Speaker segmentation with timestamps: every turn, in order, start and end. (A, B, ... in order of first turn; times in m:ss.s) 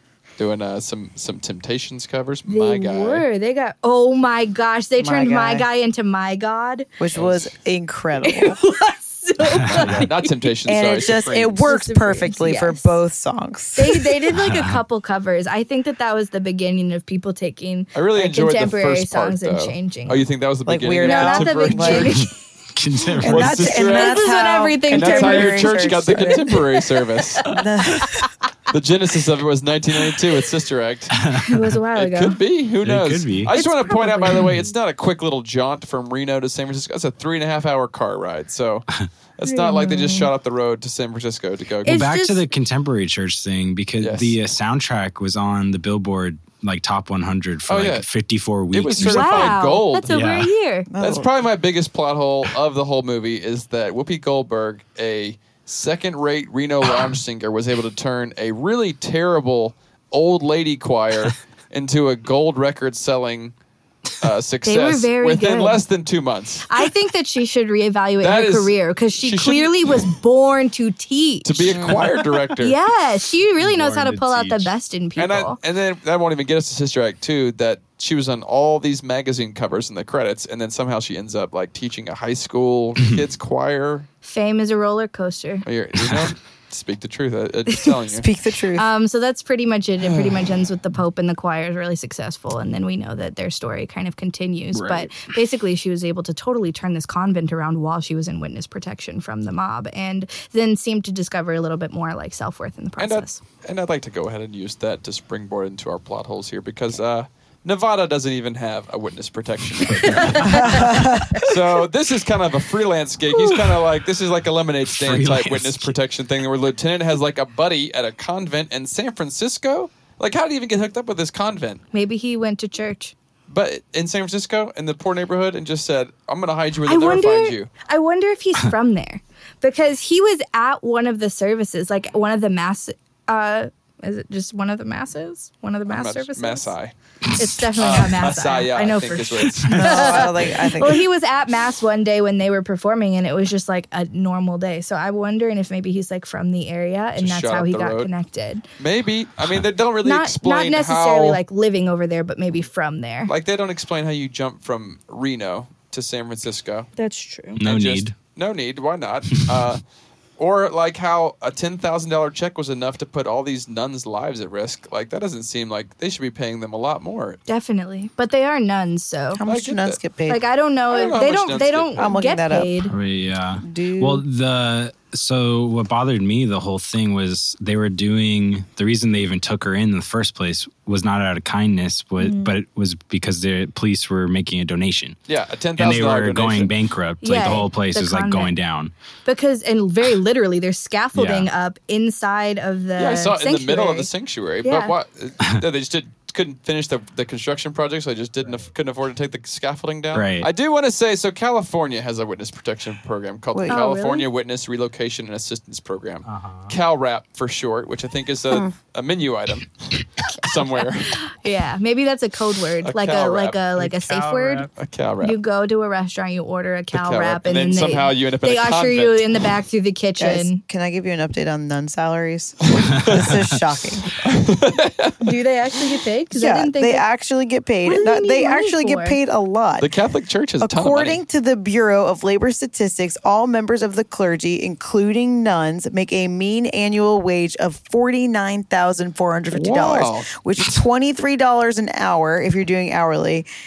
0:00.4-0:03.2 A
0:02.4-0:06.9 B
0:05.0-0:05.7 C
0:07.0-0:08.6 C
0:07.1-0:07.5 A
0:08.2-0:10.5 B
0:09.5-0:10.1 D
0:09.7-0:11.6 A
0:10.6-0:14.1 C
0:11.5-0:13.0 B
0:13.7-0:20.2 B
0:14.3-0:14.8 D
0:17.9-0:22.2 A
0:20.6-0:22.2 C
0:21.0-0:22.3 B
0:22.2-0:23.8 D
0:23.2-0:26.7 C
0:23.2-0:24.2 A
0:23.8-0:28.2 B
0:24.9-0:27.4 A
0:27.4-0:28.3 C
0:28.7-0:31.2 A
0:31.1-0:31.7 D
0:31.4-0:32.4 B
0:32.0-0:42.0 A
0:32.8-0:33.5 D
0:33.5-0:34.6 B
0:34.3-0:34.7 D
0:39.4-0:40.3 B
0:41.8-0:42.4 B
0:41.8-0:50.5 D
0:44.0-0:44.4 A
0:47.7-0:48.1 A
0:48.7-0:50.2 A
0:49.0-0:50.9 B
0:50.9-0:51.3 C
0:51.0-1:03.5 A
1:04.2-1:06.7 A
1:04.6-1:05.8 B
1:06.7-1:11.9 B
1:08.2-1:10.1 A
1:11.4-1:12.8 A
1:11.6-1:12.1 C
1:12.6-1:15.6 B
1:13.6-1:14.7 D
1:15.2-1:24.1 A
1:24.2-1:25.6 B
1:25.6-1:28.2 A
1:26.0-1:26.3 D
1:28.1-1:28.9 C
1:28.7-1:43.4 B
1:34.7-1:35.1 D
1:43.0-2:01.8 A
1:50.0-1:51.5 B
1:50.0-1:50.4 D
1:50.4-1:51.4 C
1:54.9-1:55.9 D
2:01.9-2:03.1 B
2:03.5-2:07.7 A
2:06.8-2:16.7 B
2:15.9-2:16.9 A
2:17.3-2:28.6 B
2:17.8-2:20.3 A
2:19.7-2:19.9 D
2:19.7-2:21.0 C
2:27.2-2:28.1 A
2:28.8-2:31.4 A
2:30.0-2:33.3 B
2:33.3-2:36.9 A
2:37.0-2:37.6 B
2:37.6-2:38.1 D
2:37.6-2:39.8 A
2:40.4-2:47.4 A
2:47.5-2:49.4 B
2:49.3-2:50.4 C
2:49.4-2:50.0 A
2:50.3-2:52.9 B
2:50.9-2:52.1 A
2:52.0-2:52.7 C
2:52.9-3:05.2 D
2:53.6-2:54.2 C
3:02.2-3:02.5 B
3:05.3-3:06.7 A
3:05.8-3:08.9 D
3:07.2-3:08.5 B
3:09.2-3:14.1 B
3:11.1-3:11.5 D
3:13.0-3:29.7 A
3:14.6-3:14.9 B
3:20.1-3:20.5 D
3:23.5-3:23.8 C
3:23.7-3:24.3 B
3:26.2-3:26.7 D
3:30.3-3:31.1 A
3:31.0-3:34.7 B
3:32.8-3:33.6 A
3:33.8-3:34.7 D
3:34.7-3:35.4 A
3:35.2-3:40.6 B
3:36.9-3:39.2 A
3:40.2-3:44.2 C
3:42.7-3:43.3 A
3:44.2-3:45.3 A
3:45.2-3:47.0 B
3:46.3-3:49.9 C
3:47.8-3:49.2 B
3:49.8-3:51.2 A
3:50.6-4:03.5 C
3:59.5-4:00.3 A